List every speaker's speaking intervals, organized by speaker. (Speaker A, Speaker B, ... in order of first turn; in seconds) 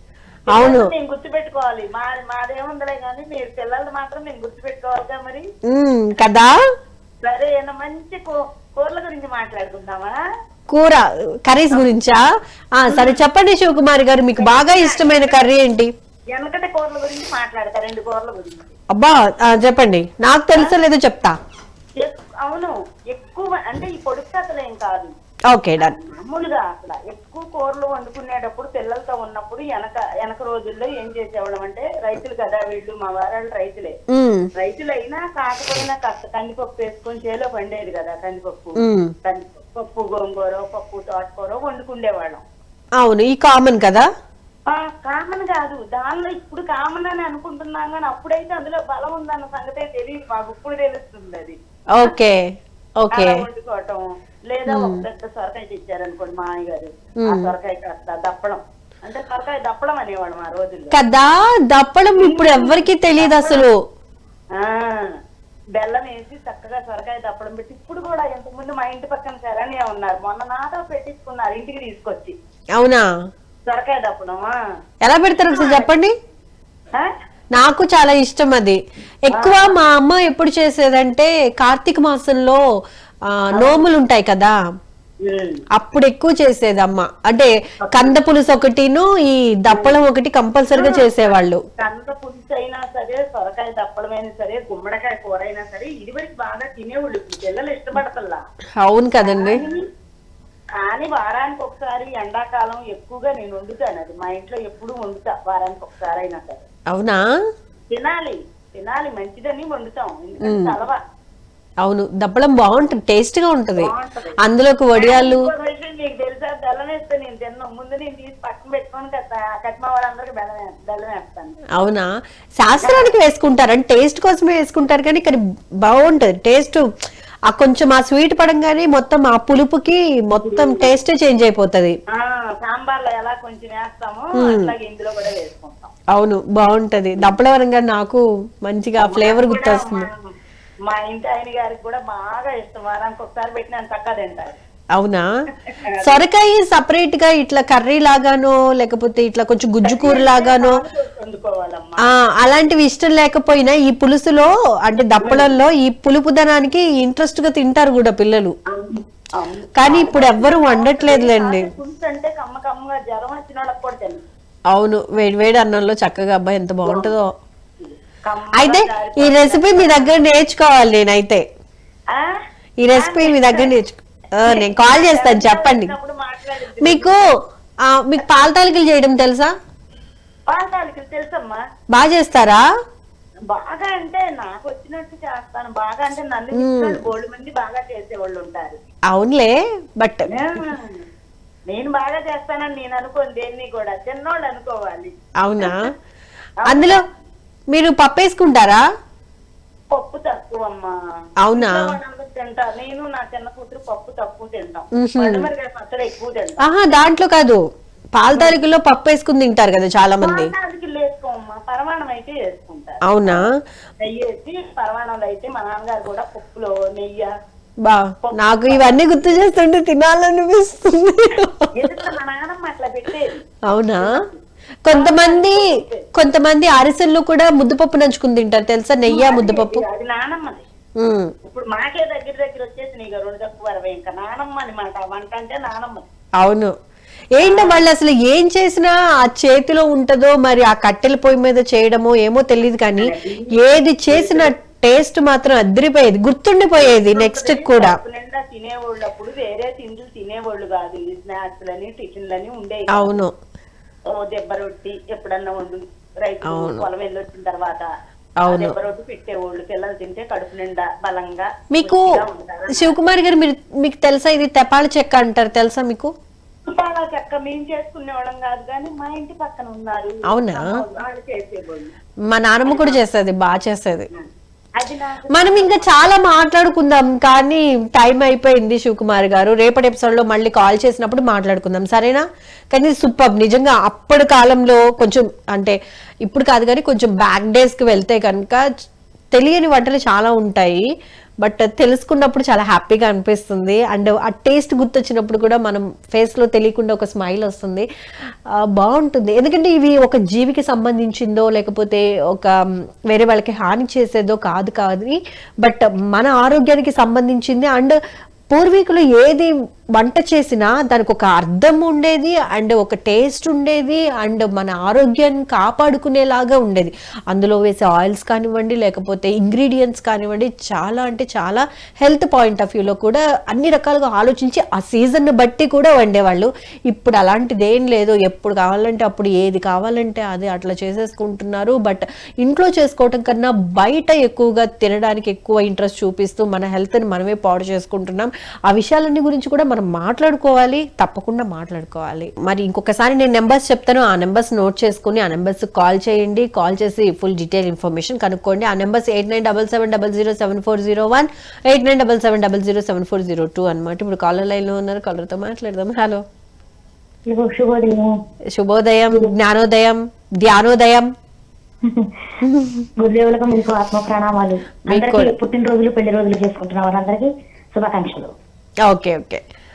Speaker A: 0.5-5.5, 7.2-10.2, 12.9-13.2, 14.4-15.4, 16.3-18.7, 22.0-25.1, 25.8-33.9, 34.5-42.4, 44.7-51.6, 53.1-60.9, 62.2-63.6, 64.5-65.1, 65.8-72.3, 73.7-74.5, 75.5-75.9, 79.3-79.7, 83.5-83.8, 85.2-85.6, 87.8-88.1, 89.7-90.0, 90.7-91.3, 91.8-98.4, 99.2-99.8, 100.8-106.6, 107.9-111.0, 113.8-114.3, 115.0-121.6, 122.8-123.1, 130.4-130.9, 132.1-135.9, 139.0-140.3, 140.9-144.6, 145.7-146.2, 149.8-152.1, 155.2-155.5, 158.7-164.2, 166.9-167.1, 167.8-170.2, 172.1-172.4, 172.9-173.7, 174.5-177.2, 180.5-181.6, 183.5-188.8, 190.3-191.0, 191.7-195.9, 196.6-197.0, 199.9-200.9, 201.5-206.7, 210.2-213.4, 214.0-217.3, 218.2-219.1, 221.7-223.4, 224.0-226.1, 229.1-230.6, 231.4-236.0, 237.4-237.8, 243.0-243.6, 244.1-244.5, 246.8-253.1, 254.1-257.9, 258.4-262.9, 266.7-271.9, 272.6-272.9, 274.8-275.9
Speaker B: 0.5-0.9, 5.7-6.5, 10.7-12.2, 12.8-15.9, 18.9-21.4, 25.5-25.9, 34.1-34.5, 38.8-39.1, 43.0-44.1, 51.9-52.4, 53.0-53.5, 54.7-55.0, 57.3-57.5, 60.9-63.7, 72.8-73.0, 75.0-76.1, 77.5-82.6, 83.3-84.5, 85.7-91.6, 98.8-99.6, 106.9-107.3, 110.4-110.8, 111.8-113.9, 114.4-115.5, 121.7-126.8, 127.5-131.9, 134.3-134.7, 136.1-140.1, 144.9-145.3, 146.0-150.8, 152.0-158.6, 159.8-161.7, 164.7-167.3, 168.6-171.4, 172.8-175.9, 176.8-177.2, 177.8-179.5, 181.9-182.6, 186.5-187.0, 189.1-190.3, 195.4-195.9, 196.7-197.0, 197.7-198.8, 201.4-202.0, 204.9-205.5, 206.6-207.6, 208.2-210.5, 213.1-213.5, 217.8-222.0, 223.7-224.2, 224.8-229.8, 231.0-231.3, 236.4-236.7, 237.4-248.0, 252.9-253.3, 256.4-256.8, 258.4-258.7, 261.7-266.1, 270.3-270.8, 272.3-274.1, 275.3-288.6, 289.3-290.9, 291.4-297.9, 298.6-302.6, 303.1-308.0, 308.5-356.2, 358.5-361.1, 362.4-362.8, 364.9-365.3, 368.9-369.4
Speaker C: 357.3-358.1, 361.8-362.1, 363.0-368.3